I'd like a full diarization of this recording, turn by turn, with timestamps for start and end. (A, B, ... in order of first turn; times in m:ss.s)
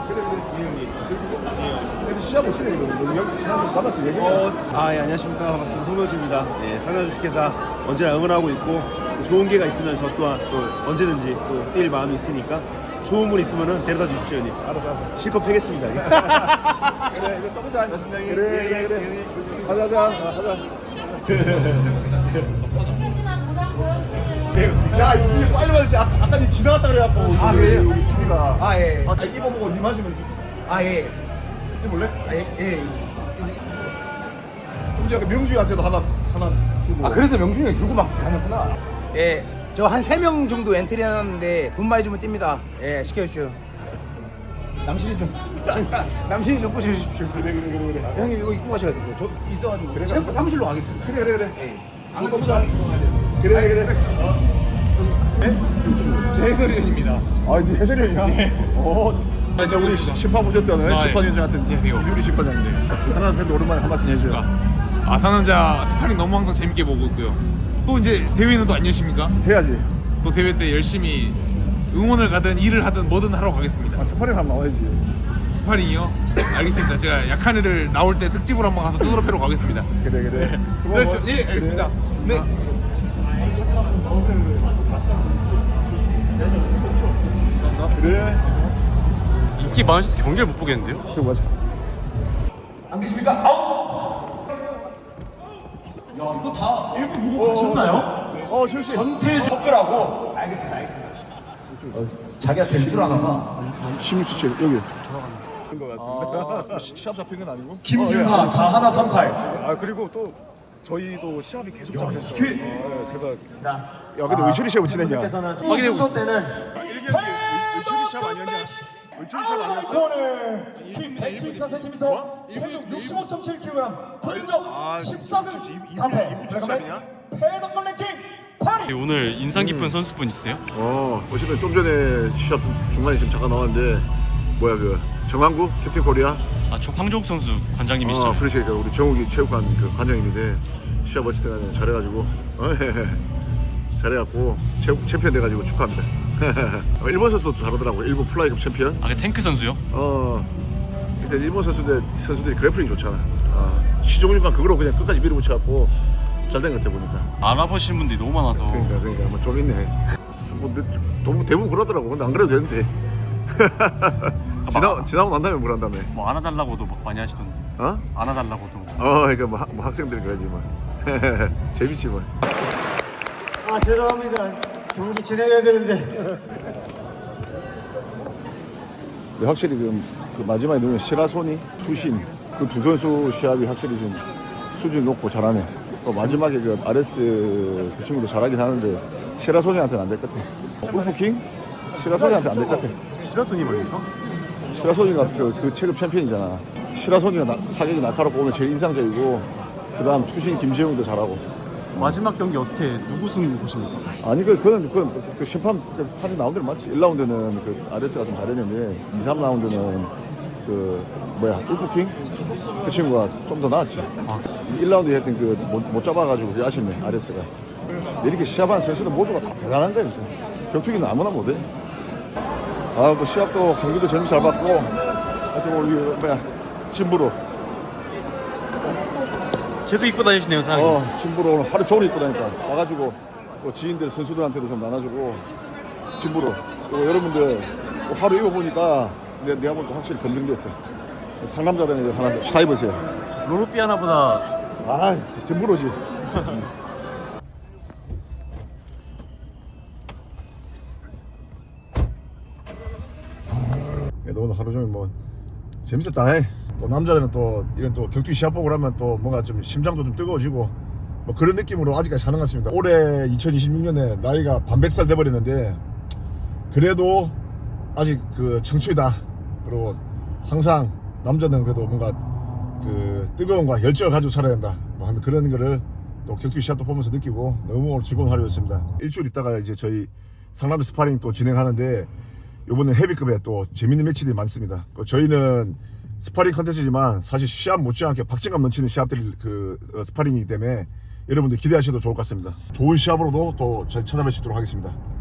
0:00.4-0:01.9 A
0:02.0-0:04.6 B
0:04.6-0:14.5 A
0:14.6-0:15.2 B
0:15.2-0:15.9 A
0:16.0-0:16.5 B
0:17.0-0:22.3 B
0:18.6-0:19.0 C
0:24.8-0:30.4 B
0:27.3-0:29.3 C
0:30.6-0:31.2 C
0:31.8-0:32.3 B
0:32.2-0:33.4 C
0:34.9-0:37.3 B
0:37.0-0:43.6 C
0:44.8-0:47.5 C
0:47.2-0:48.4 B
0:48.1-0:54.4 C
0:49.9-0:51.6 B
0:52.1-0:52.8 B
0:53.4-0:54.4 B
0:55.4-0:56.4 B
0:56.3-0:57.3 D
0:57.4-1:04.5 B
0:59.7-1:00.2 D
1:00.8-1:02.1 D
1:04.1-1:04.5 D
1:05.0-1:09.4 D
1:09.4-1:09.9 B
1:10.2-1:14.0 D
1:14.0-1:15.1 B
1:15.5-1:22.4 D
1:20.0-1:22.5 B
1:23.7-1:24.2 B
1:27.9-1:28.5 B
1:29.6-1:31.1 E
1:31.1-1:31.5 B
1:32.9-1:33.8 C
1:37.4-1:39.1 B
1:39.1-1:40.2 E
1:39.4-1:39.7 C
1:40.2-1:41.2 C
1:41.7-1:42.1 B
1:42.4-1:43.4 C
1:43.9-1:44.9 B
1:45.7-1:53.5 B
1:54.1-2:00.2 B
1:55.4-1:56.2 C
1:59.8-2:05.4 F
2:02.0-2:03.4 B
2:04.2-2:07.1 B
2:06.0-2:06.7 F
2:07.3-2:08.8 F
2:08.7-2:10.6 E
2:09.5-2:10.0 B
2:10.7-2:16.4 B
2:16.7-2:18.5 E
2:18.0-2:23.2 B
2:24.0-2:29.0 B
2:29.0-2:29.8 E
2:29.9-2:30.5 B
2:31.2-2:36.0 B
2:36.5-2:37.3 B
2:37.4-2:39.0 E
2:38.5-2:42.9 B
2:43.5-2:46.1 B
2:44.6-2:45.1 E
2:46.1-2:49.0 E
2:47.8-2:48.1 B
2:49.0-2:52.3 B
2:59.4-3:13.0 B
3:12.1-3:14.1 E
3:14.7-3:22.2 B
3:22.0-3:24.0 E
3:24.2-3:32.2 B
3:32.8-3:34.1 B
3:34.6-3:37.5 B
3:38.2-3:41.7 B
3:42.9-3:45.0 B
3:45.5-3:47.4 B
3:49.8-3:51.0 E
3:50.7-3:55.5 B
3:56.2-4:00.8 B
4:01.4-4:03.1 B
4:03.4-4:04.5 E
4:04.8-4:06.7 B
4:14.2-4:15.1 B
4:15.8-4:25.8 B
4:26.7-4:27.4 B
4:28.0-4:32.2 B
4:32.8-4:42.1 B
4:42.7-4:55.0 B